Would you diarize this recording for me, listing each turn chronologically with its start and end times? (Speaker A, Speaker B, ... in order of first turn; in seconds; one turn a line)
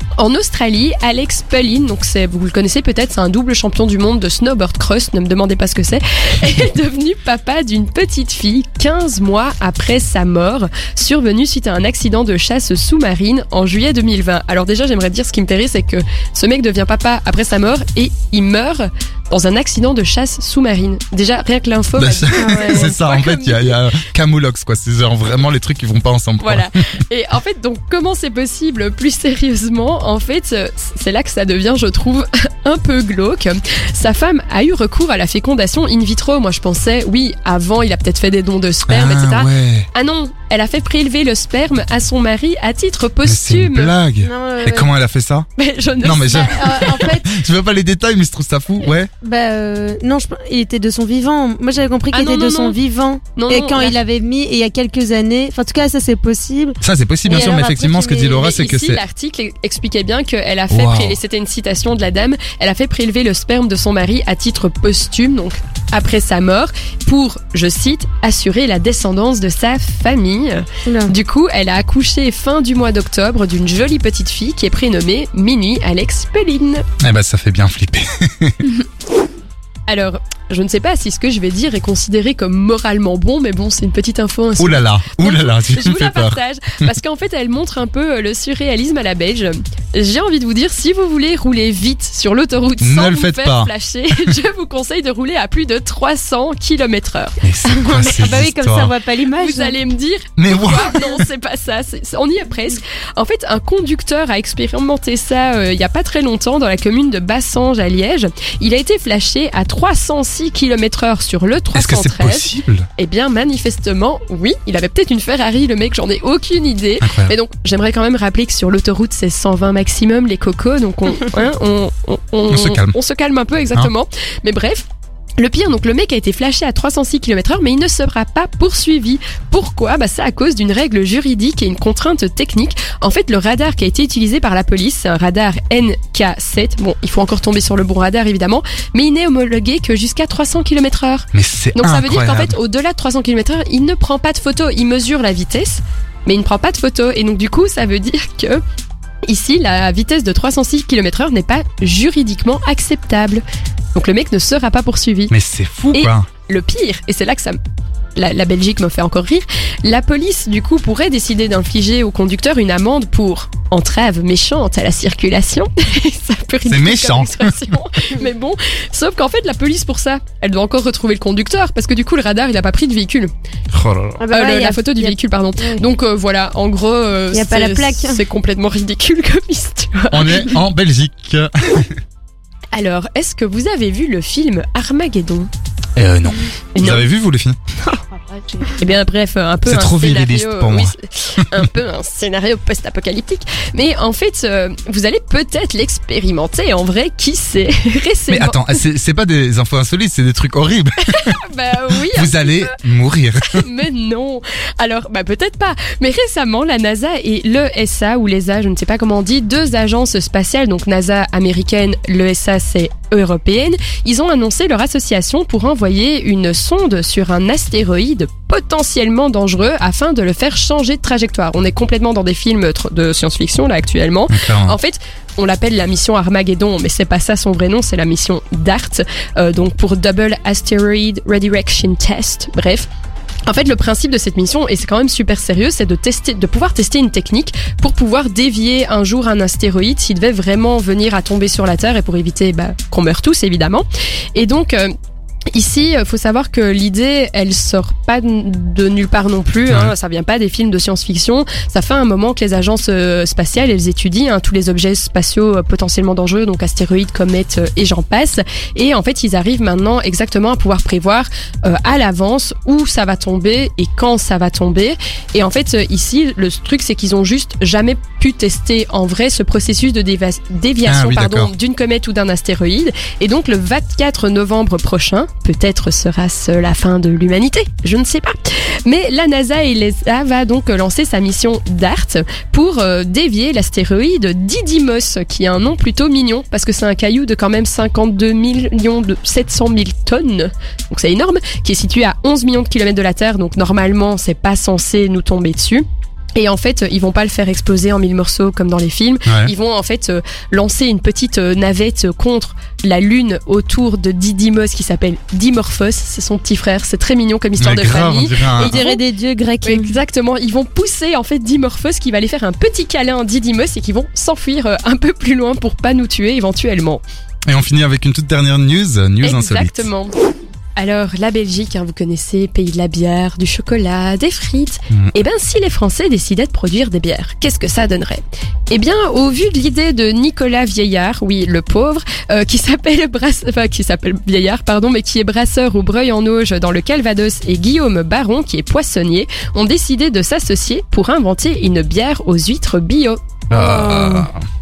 Speaker A: 0.2-23.8
Speaker B: 22.0-26.7
Speaker C: 22.4-22.9
Speaker A: 26.4-43.9
Speaker B: 38.9-39.9
Speaker B: 43.2-45.5
Speaker C: 44.2-44.9
Speaker A: 45.6-47.0
Speaker B: 46.0-49.1
Speaker C: 46.2-47.2
Speaker C: 49.2-58.4
Speaker A: 52.1-52.8
Speaker A: 53.4-54.0
Speaker B: 56.8-59.0
Speaker A: 57.3-57.6
Speaker A: 58.2-76.8
Speaker B: 60.7-61.2
Speaker C: 70.9-71.1
Speaker B: 77.0-78.6
Speaker A: 79.9-97.4
Speaker B: 84.6-86.9
Speaker B: 92.8-93.7
Speaker B: 97.4-98.9
Speaker C: 97.7-99.8
Speaker A: 99.3-124.9
Speaker B: 100.4-101.0
Speaker B: 111.8-112.9
Speaker B: 117.0-117.3
Speaker B: 122.5-122.9
Speaker A: 125.4-148.6
Speaker B: 141.3-142.6
Speaker A: 149.3-153.4
Speaker A: 153.9-155.3
Speaker B: 155.3-156.3
Speaker A: 155.9-157.6
Speaker A: 158.2-173.3
Speaker B: 166.7-167.6
Speaker B: 173.7-174.2
Speaker C: 174.2-175.8
Speaker A: 174.3-180.6
Speaker C: 177.3-178.2
Speaker B: 180.1-181.9
Speaker A: 182.7-185.5
Speaker B: 186.0-187.6
Speaker A: 186.8-187.1
Speaker A: 188.5-198.7
Speaker B: 189.7-190.9
Speaker B: 198.3-201.1
Speaker A: 201.1-202.7
Speaker B: 202.1-203.6
Speaker A: 203.5-232.9
Speaker B: 224.3-224.8
Speaker A: 233.5-244.9
Speaker A: 245.5-295.9
Speaker B: 270.9-271.5
Speaker A: 296.4-309.0
Speaker B: 299.3-299.5
Speaker B: 307.6-308.8
Speaker C: 308.6-310.0
Speaker A: 309.6-317.0
Speaker B: 317.5-319.9
Speaker A: 319.2-320.1
Speaker A: 320.8-343.5
Speaker C: 343.5-344.3
Speaker B: 343.5-344.4